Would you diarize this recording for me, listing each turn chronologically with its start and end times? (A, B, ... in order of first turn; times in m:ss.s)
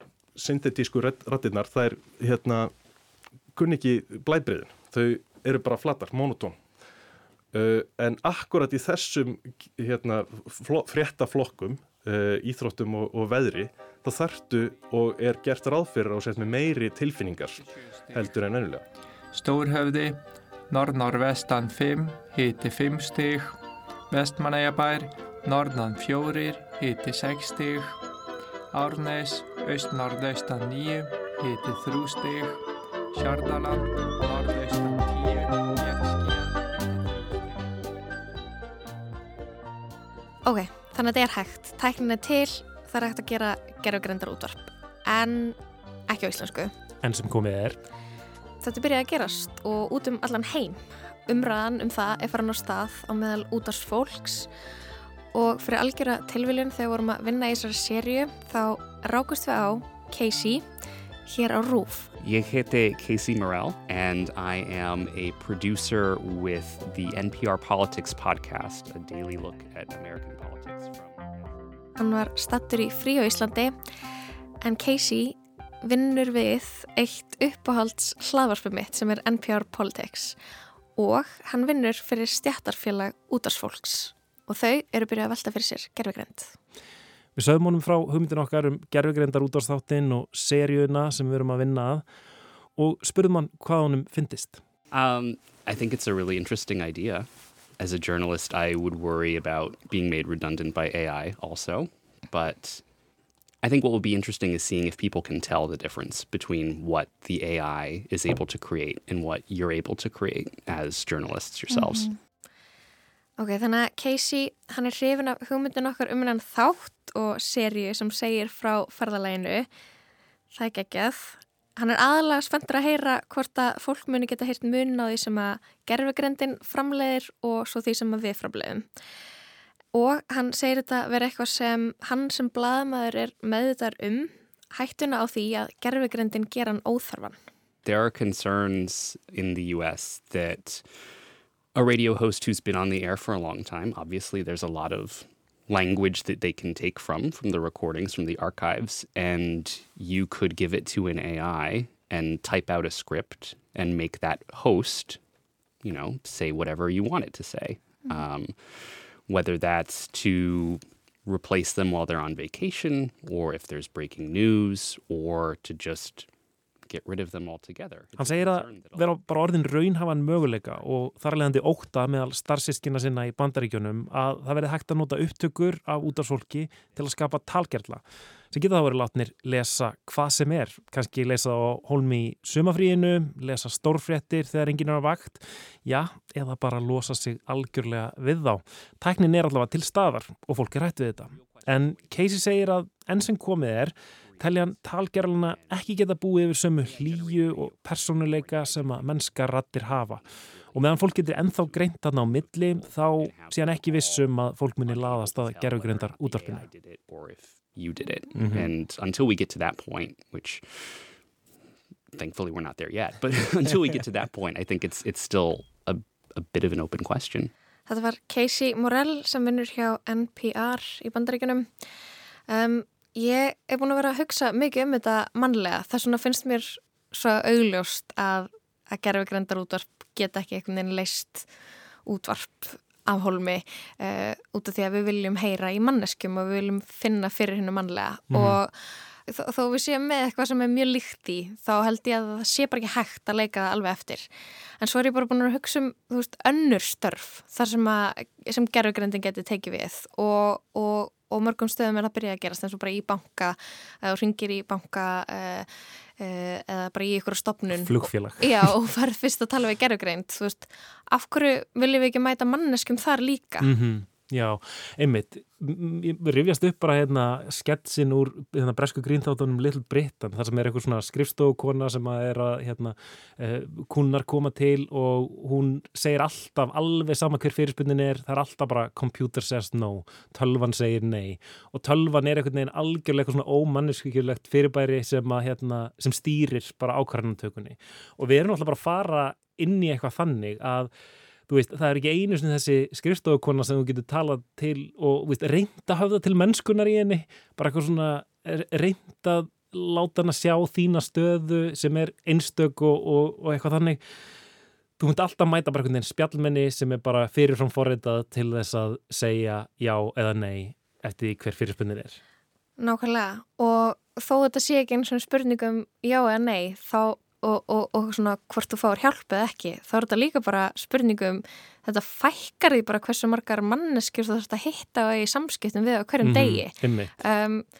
0:00.4-0:02.7 A
0:03.5-0:06.6 A
0:07.5-0:18.8 A
0:19.3-0:23.6 B
0:24.1-0:28.0 B
0:28.7-0:37.9 B
0:40.4-0:46.7 C
0:47.0-0:47.8 D
0:48.6-0:54.5 C
0:55.3-1:00.6 C
1:01.3-1:02.1 C
1:02.2-1:11.2 E
1:12.0-1:13.7 C
1:14.6-1:20.4 C
1:21.0-1:26.5 C
1:27.4-1:32.0 D
1:32.8-1:34.6 D
1:34.9-1:37.3 E
1:37.8-1:42.8 E
1:43.6-1:52.1 E
1:51.7-1:52.1 C
1:53.4-1:59.7 C
2:00.5-2:08.9 C
2:09.9-2:17.4 C
2:17.8-2:21.0 E
2:21.7-2:35.2 E
2:35.8-2:46.3 E
2:46.8-2:49.1 E
2:48.2-3:26.7 D
3:14.3-3:14.6 E
3:15.5-3:15.8 E
3:16.8-3:19.0 E
3:20.3-3:31.1 E
3:28.3-3:28.7 D
3:32.1-3:37.5 E
3:37.9-3:41.8 C
3:42.5-3:51.5 C
3:52.0-4:04.3 C
3:58.3-3:58.6 D
4:04.8-4:23.7 C
4:17.8-4:18.7 D
4:23.6-4:50.9 D
4:51.5-5:04.0 D
5:05.0-5:12.2 D
5:12.8-5:27.6 C
5:26.2-5:27.1 D